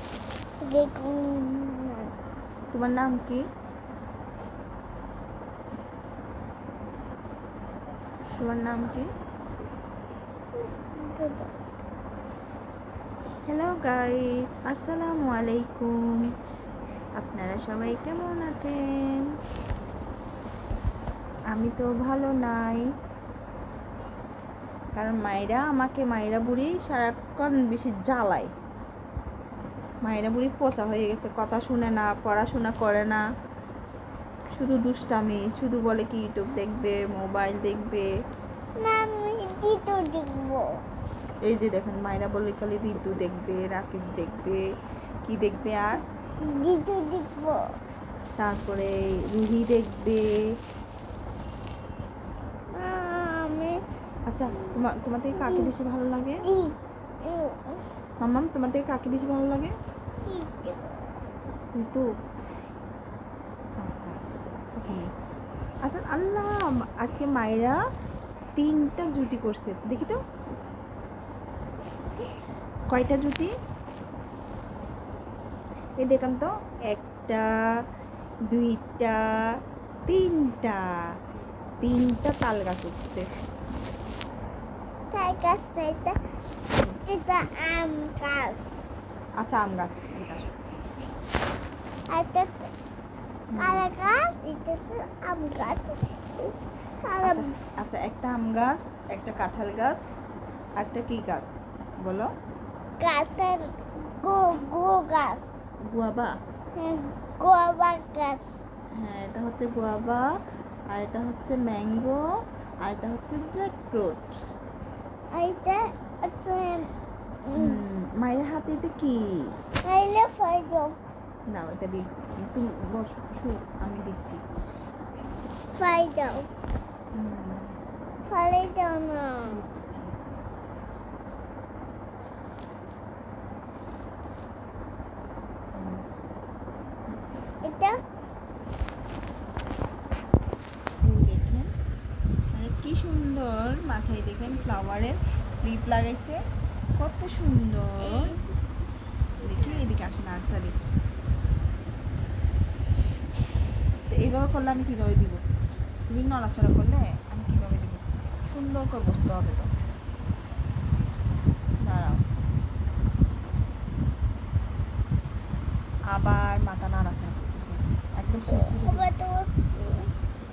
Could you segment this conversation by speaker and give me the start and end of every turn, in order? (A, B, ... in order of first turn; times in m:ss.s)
0:00.6-0:02.1 A
0:02.7-0:03.4 B
0:08.3-0:09.1 B
0:10.6-0:11.6 A
0:13.5-0:16.2 B
0:17.2-0:19.3 B
0:21.5-0:22.8 B
0:24.9-0:28.5 B
0:30.0-0:33.2 B
0:34.5-0:38.1 B
0:38.8-0:40.8 A
0:41.4-0:44.6 B
0:45.2-0:46.0 B
0:46.4-0:47.7 A
0:48.4-0:50.4 B
0:52.7-0:53.8 A
0:54.3-0:56.4 B
0:54.5-0:54.8 A
0:55.3-0:55.7 A
0:56.4-0:57.8 A
0:58.2-0:59.7 B
1:00.2-1:01.0 A
1:01.7-1:02.1 B
1:03.8-1:04.2 B
1:04.7-1:05.1 B
1:05.8-1:07.8 B
1:08.6-1:10.2 B
1:12.9-1:13.5 B
1:16.0-1:17.5 B
1:18.5-1:19.6 B
1:20.1-1:20.9 B
1:21.8-1:23.3 B
1:25.1-1:26.2 A
1:27.0-1:28.6 A
1:29.4-1:30.5 B
1:32.1-1:32.7 A
1:33.5-1:33.9 B
1:33.6-1:37.5 A
1:37.2-1:40.0 B
1:40.8-1:42.3 B
1:43.0-1:45.4 A
1:45.9-1:46.4 B
1:46.7-1:48.5 A
1:49.0-1:50.2 B
1:50.9-1:52.2 B
1:52.8-1:54.3 B
1:55.3-1:56.9 A
1:57.4-1:57.8 A
1:57.6-1:59.5 B
1:59.8-2:00.9 A
2:01.5-2:04.4 B
2:05.7-2:06.5 A
2:07.1-2:07.7 B
2:08.3-2:09.6 A
2:09.4-2:10.2 B
2:15.7-2:16.0 B
2:17.1-2:17.4 B
2:17.6-2:18.0 A
2:21.0-2:21.7 B
2:22.5-2:26.4 B
2:27.0-2:28.4 B
2:28.0-2:28.6 A
2:29.4-2:30.8 B
2:29.4-2:29.8 A
2:34.1-2:35.4 B
2:36.1-2:39.7 B
2:41.8-2:42.2 B
2:46.1-2:49.1 B
2:48.4-2:50.1 A